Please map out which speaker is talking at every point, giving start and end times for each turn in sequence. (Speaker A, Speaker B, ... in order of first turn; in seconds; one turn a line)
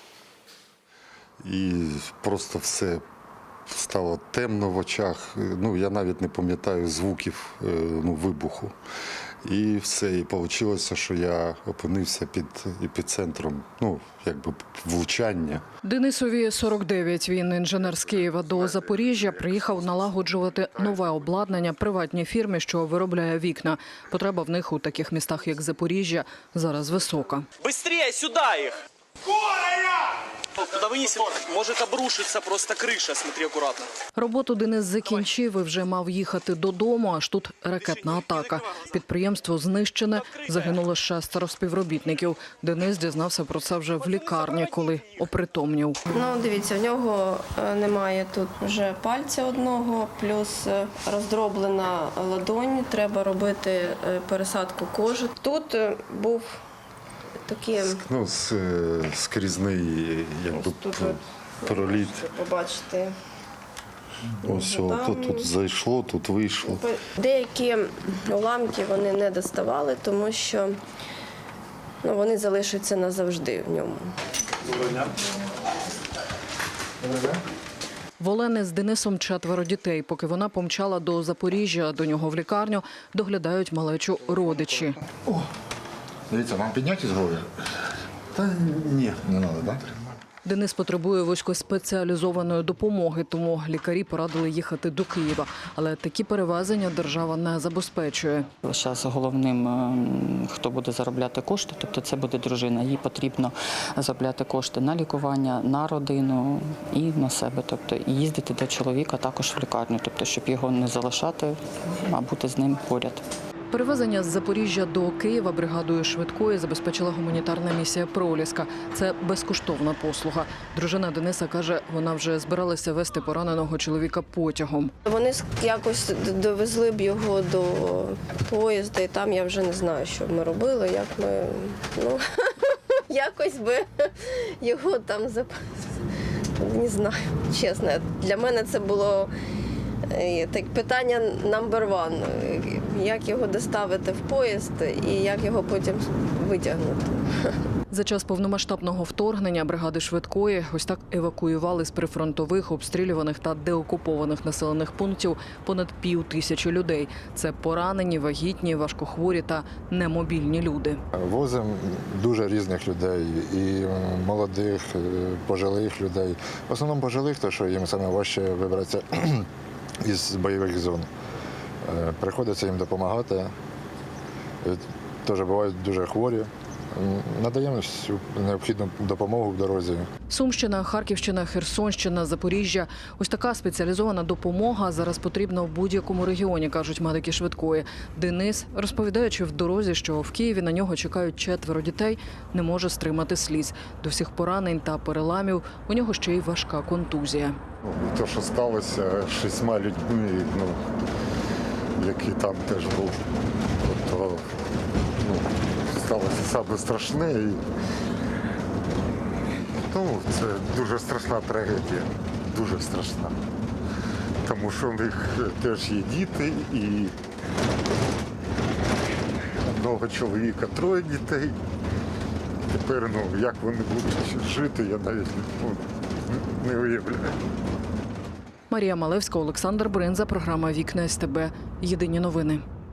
Speaker A: 1.4-3.0
Speaker A: 3.7-8.7
Speaker A: 9.4-15.6
Speaker B: 15.8-27.5
Speaker C: 27.6-28.8
Speaker C: 30.6-33.9
Speaker B: 34.1-46.0
Speaker D: 46.1-56.5
Speaker D: 57.5-58.0
Speaker A: 57.8-62.2
Speaker D: 60.5-63.1
Speaker A: 64.4-66.9
Speaker D: 64.5-65.5
Speaker D: 66.6-70.8
Speaker D: 72.0-74.1
Speaker E: 77.0-77.3
Speaker B: 78.2-85.0
Speaker E: 86.3-87.5
Speaker A: 88.4-89.2
Speaker E: 89.1-89.9
Speaker B: 90.4-98.5
Speaker F: 98.6-113.2
Speaker B: 113.7-124.9
Speaker D: 125.0-135.9
Speaker D: 136.6-139.3
Speaker D: 140.1-147.5
Speaker B: 147.9-161.0
Speaker E: 161.1-169.5
Speaker E: 170.0-171.1
Speaker E: 171.8-173.5
Speaker E: 174.6-180.1
Speaker B: 180.3-197.6
Speaker A: 197.8-201.0
Speaker A: 202.0-203.2
Speaker A: 203.8-204.5
Speaker A: 205.2-207.6
Speaker A: 209.9-213.3
Speaker A: 214.4-217.1
Speaker A: 219.6-221.6
Speaker A: 222.7-227.4
Speaker B: 228.7-232.6